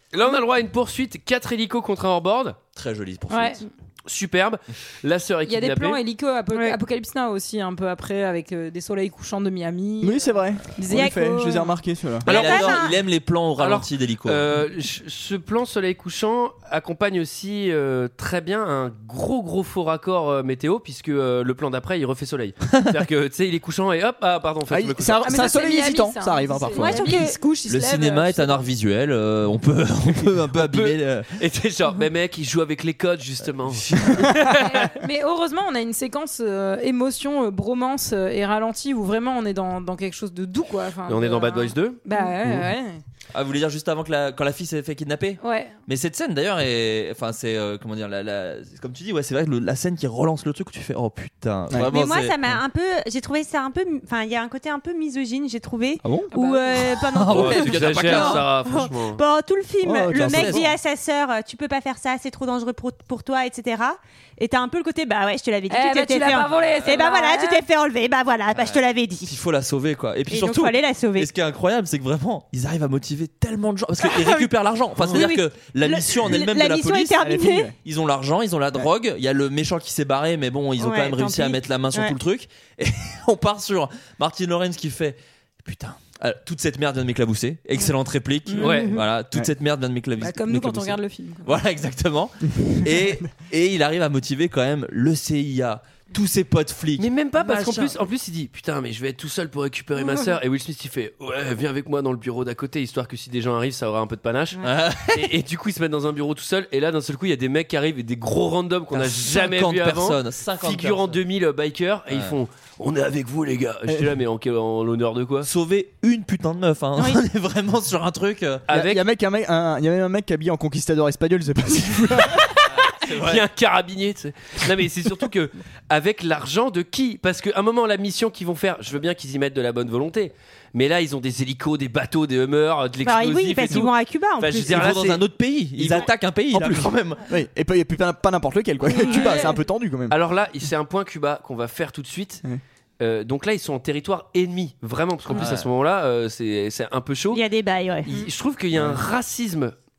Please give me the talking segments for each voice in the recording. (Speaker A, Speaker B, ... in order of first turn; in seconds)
Speaker A: 0.1-2.6, 4.1-6.0, 12.3-12.9, 13.6-25.4, 30.5-34.9, 41.1-42.0, 57.3-59.2, 88.6-88.9, 97.0-115.5, 118.7-119.0, 123.2-135.2, 135.8-136.1, 140.1-142.4, 143.0-147.4, 148.1-149.7
Speaker B: 2.8-3.6, 12.3-14.5, 26.8-27.1, 27.7-31.3, 33.7-34.5, 43.3-52.4, 57.0-58.5, 60.1-60.7, 66.7-67.0, 68.5-77.2, 77.8-98.0, 104.6-105.3, 108.9-111.2, 112.1-112.4, 115.5-118.7, 122.7-123.5, 134.5-137.2, 145.3-145.7
Speaker C: 3.3-3.6, 5.5-11.7, 25.2-28.7, 34.6-43.0, 45.4-45.7, 56.3-56.8, 65.7-67.7, 90.2-91.5, 100.0-100.3
Speaker D: 6.5-6.8, 12.2-13.0, 26.8-27.4, 51.9-69.3, 70.3-71.3, 74.0-74.5, 75.0-77.7, 80.8-82.2, 88.6-89.0, 117.0-117.2, 133.0-134.9, 138.9-139.6, 147.3-148.3
Speaker E: 10.0-12.3, 24.7-27.0, 56.0-56.3, 59.8-60.7, 77.2-77.7, 92.8-93.2, 118.7-122.5, 136.5-140.2